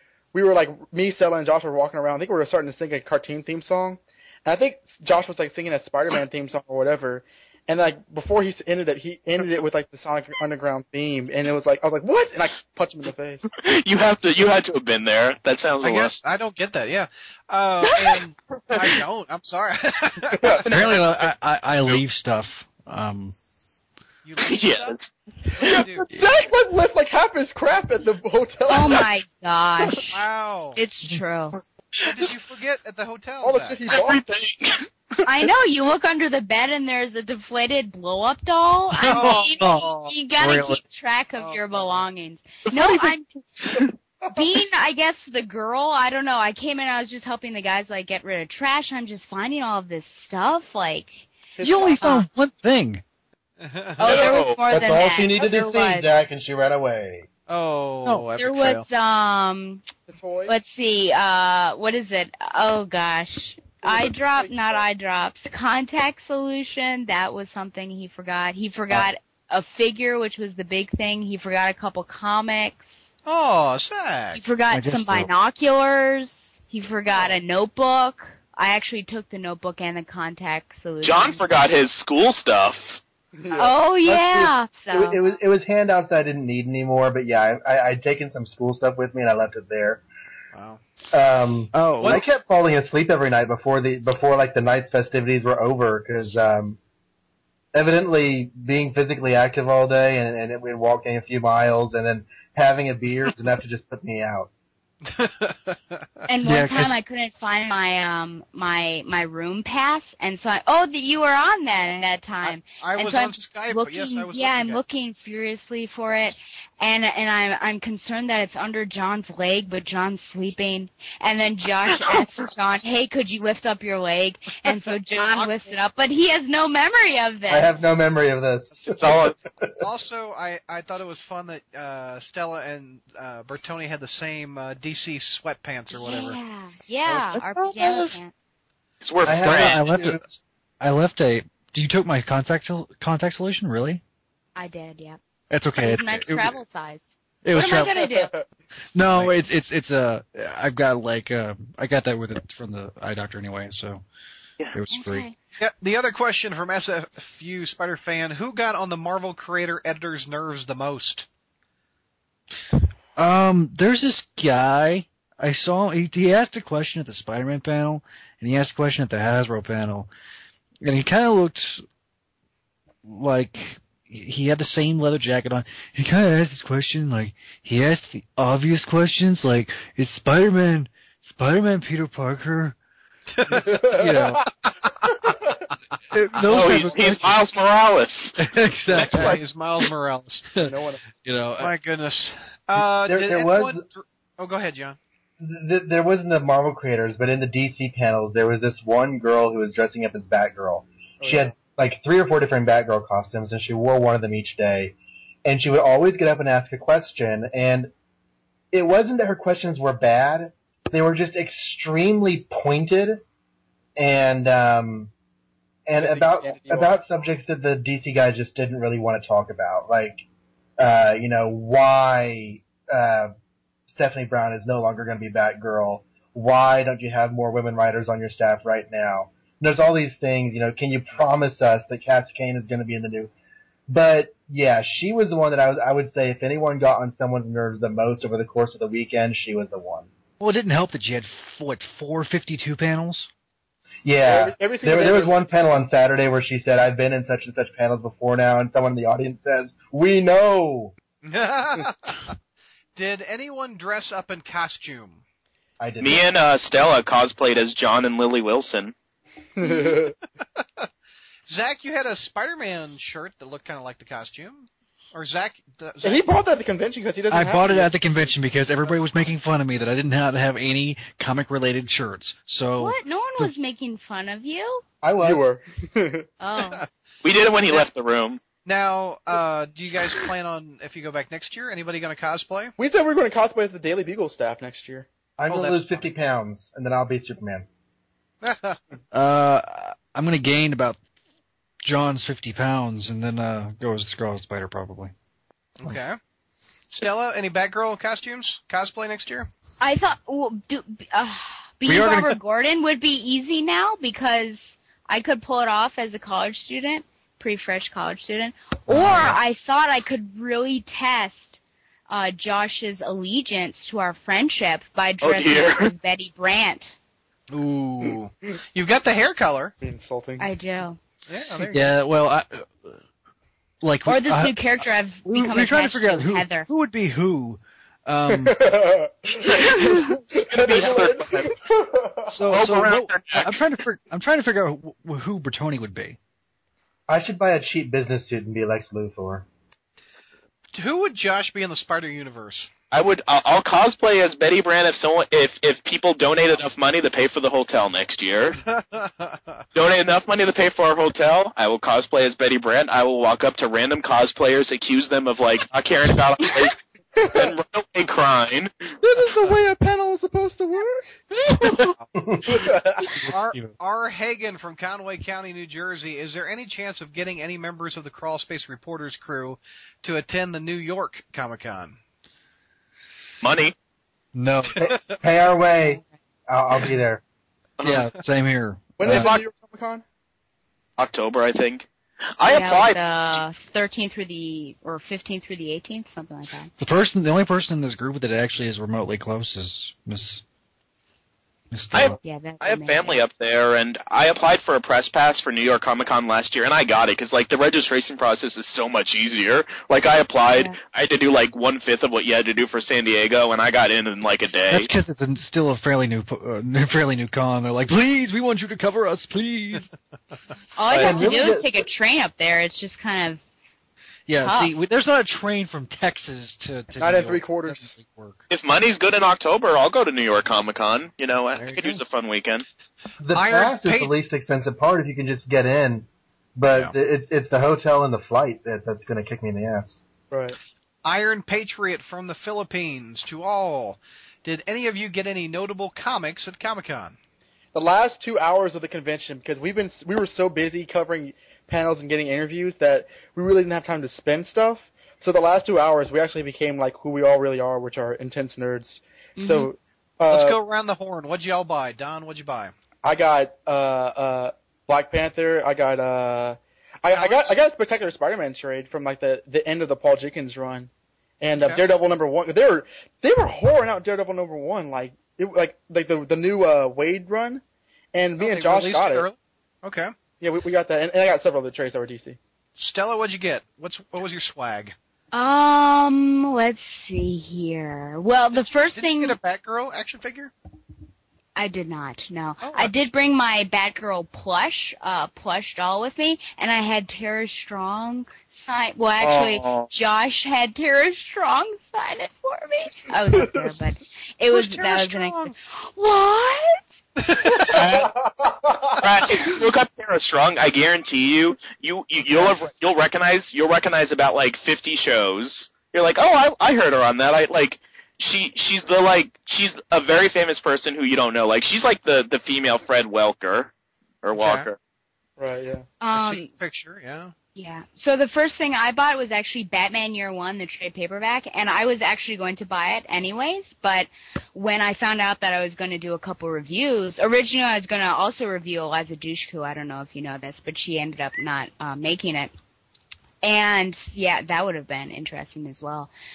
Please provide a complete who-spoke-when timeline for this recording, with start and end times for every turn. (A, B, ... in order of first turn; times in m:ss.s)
0:00.3-0:13.4 A
0:13.6-0:16.2 B
0:15.8-0:20.6 C
0:20.4-0:20.6 A
0:20.6-0:21.2 B
0:20.7-0:23.4 D
0:24.2-0:25.0 C
0:24.4-0:25.8 B
0:25.6-0:26.0 C
0:25.7-0:29.0 A
0:28.7-0:30.2 E
0:30.1-0:30.8 C
0:30.8-0:31.6 E
0:32.0-0:33.8 C
0:33.4-0:34.2 A
0:33.9-0:34.8 B
0:35.2-0:43.4 E
0:39.0-0:40.8 D
0:39.1-0:40.2 C
0:41.4-0:42.0 C
0:42.7-0:43.1 B
0:44.3-0:51.3 E
0:51.6-0:52.0 A
0:51.6-0:53.0 D
0:52.0-0:52.2 E
0:53.6-0:54.2 C
0:54.0-0:56.1 E
0:54.0-0:54.6 B
0:54.7-0:57.3 F
0:57.5-0:58.8 C
0:58.4-0:59.8 E
1:00.1-1:00.5 A
1:00.5-1:13.0 E
1:03.8-1:04.8 A
1:13.2-1:14.4 C
1:14.3-1:21.4 E
1:14.7-1:15.3 D
1:17.1-1:17.4 A
1:21.0-1:23.0 B
1:23.4-1:23.7 A
1:23.5-1:25.2 E
1:24.0-1:30.0 F
1:30.5-1:30.8 C
1:31.1-1:36.8 F
1:31.7-1:32.2 D
1:37.7-1:44.5 F
1:45.0-1:46.2 C
1:46.3-2:07.7 E
1:46.4-1:46.9 D
1:52.4-1:54.8 C
2:07.5-2:09.8 F
2:09.0-2:09.3 B
2:09.8-2:16.4 C
2:15.9-2:18.3 E
2:17.5-2:18.1 B
2:19.0-2:19.9 B
2:19.2-2:20.2 F
2:19.3-2:24.0 D
2:24.6-2:25.2 E
2:25.5-2:26.6 D
2:25.8-2:28.3 E
2:27.4-2:28.0 D
2:27.9-2:28.5 A
2:28.9-2:34.0 D
2:34.7-2:35.3 D
2:34.9-2:35.3 E
2:35.6-2:41.3 C
2:43.2-2:50.1 D
2:50.8-2:51.8 D
2:53.0-3:02.8 D
3:03.3-3:03.8 C
3:03.5-3:04.5 D
3:03.6-3:04.4 A
3:05.2-3:05.7 A
3:06.1-3:07.4 D
3:06.4-3:08.4 B
3:06.5-3:07.2 A
3:06.5-3:06.8 C
3:08.4-3:09.4 D
3:08.9-3:10.5 C
3:09.0-3:09.4 A
3:10.5-3:11.8 D
3:10.6-3:11.2 A
3:11.6-3:15.0 C
3:13.0-3:13.8 F
3:15.4-3:27.9 F
3:21.2-3:21.5 A
3:28.7-3:33.2 F
3:34.0-3:35.1 F
3:35.9-3:40.2 F
3:36.0-3:36.9 A
3:40.8-3:43.3 F
3:43.9-3:53.3 F
3:53.9-4:00.1 F
4:00.4-4:03.3 D
4:04.0-4:10.9 F
4:04.2-4:05.4 A
4:11.2-4:12.3 C
4:13.0-4:15.2 C
4:15.8-4:16.2 F
4:16.0-4:18.9 B
4:19.6-4:20.2 A
4:20.6-4:20.9 C
4:21.5-4:26.3 C
4:26.0-4:28.3 A
4:27.3-4:33.5 D
4:32.8-4:34.8 E
4:35.0-4:35.4 F
4:35.2-4:36.3 A
4:36.4-4:36.8 E
4:37.2-4:38.4 B
4:38.6-4:42.7 C
4:42.8-4:45.1 A
4:45.4-4:47.6 F
4:45.5-4:46.0 C
4:48.4-4:48.8 C
4:49.1-4:51.0 D
4:51.8-4:55.1 D
4:55.8-4:56.2 C
4:56.9-4:59.5 C
4:59.8-5:16.9 E
5:01.8-5:02.4 D
5:08.9-5:09.4 D
5:15.2-5:15.9 B
5:17.5-5:19.7 C
5:19.8-5:20.5 A
5:20.4-5:21.0 E
5:21.3-5:22.0 C
5:21.7-5:23.0 D
5:23.8-5:24.6 D
5:24.0-5:26.7 E
5:25.2-5:28.6 D
5:28.3-5:32.3 A
5:29.4-5:31.5 B
5:32.3-5:36.2 D
5:32.5-5:33.6 B
5:37.1-5:39.4 F
5:40.7-5:42.7 C
5:42.9-5:48.6 B
5:48.6-5:49.6 C
5:49.7-5:56.8 B
5:57.2-5:57.5 A
5:57.3-5:58.7 B
5:59.0-6:01.5 A
6:02.5-6:03.1 A
6:03.1-6:03.7 D
6:03.2-6:12.0 C
6:13.4-6:13.7 B
6:14.3-6:14.8 D
6:14.8-6:15.2 C
6:14.8-6:17.2 F
6:17.8-6:18.1 B
6:17.8-6:19.4 D
6:19.0-6:20.0 A
6:21.0-6:21.8 B
6:22.4-6:23.4 B
6:22.4-6:26.7 E
6:26.8-6:30.4 D
6:31.7-6:32.2 D
6:31.9-6:44.9 B
6:32.2-6:33.2 E
6:44.7-6:49.9 D
6:50.8-6:53.4 E
6:50.9-6:51.8 F
6:50.9-6:51.4 D
6:54.3-6:58.4 D
6:54.4-6:54.8 E
6:57.0-6:57.9 A
6:58.5-7:02.6 B
7:01.6-7:02.0 C
7:03.2-7:10.0 F
7:03.3-7:04.1 C
7:10.3-7:10.6 A
7:11.0-7:17.2 C
7:17.7-7:30.6 A
7:29.4-7:29.7 E
7:30.3-7:32.7 C
7:33.0-7:40.9 A
7:37.1-7:37.6 C
7:41.4-7:47.6 A
7:41.5-7:41.8 C
7:48.1-7:49.3 A
7:48.4-7:50.1 C
7:50.4-7:52.4 A
7:52.8-7:54.9 C
7:55.3-7:59.4 E
7:58.6-8:00.5 C
8:01.6-8:16.8 E
8:02.6-8:02.9 C
8:09.2-8:09.9 B
8:13.3-8:13.6 A
8:14.5-8:15.5 C
8:17.2-8:17.8 C
8:17.7-8:19.3 A
8:17.7-8:18.1 B
8:19.0-8:33.7 B
8:34.2-8:34.8 B
8:34.3-8:34.7 C
8:35.4-8:35.9 A
8:36.0-8:36.6 E
8:36.1-8:37.3 C
8:37.5-8:52.5 E
8:53.4-8:56.1 E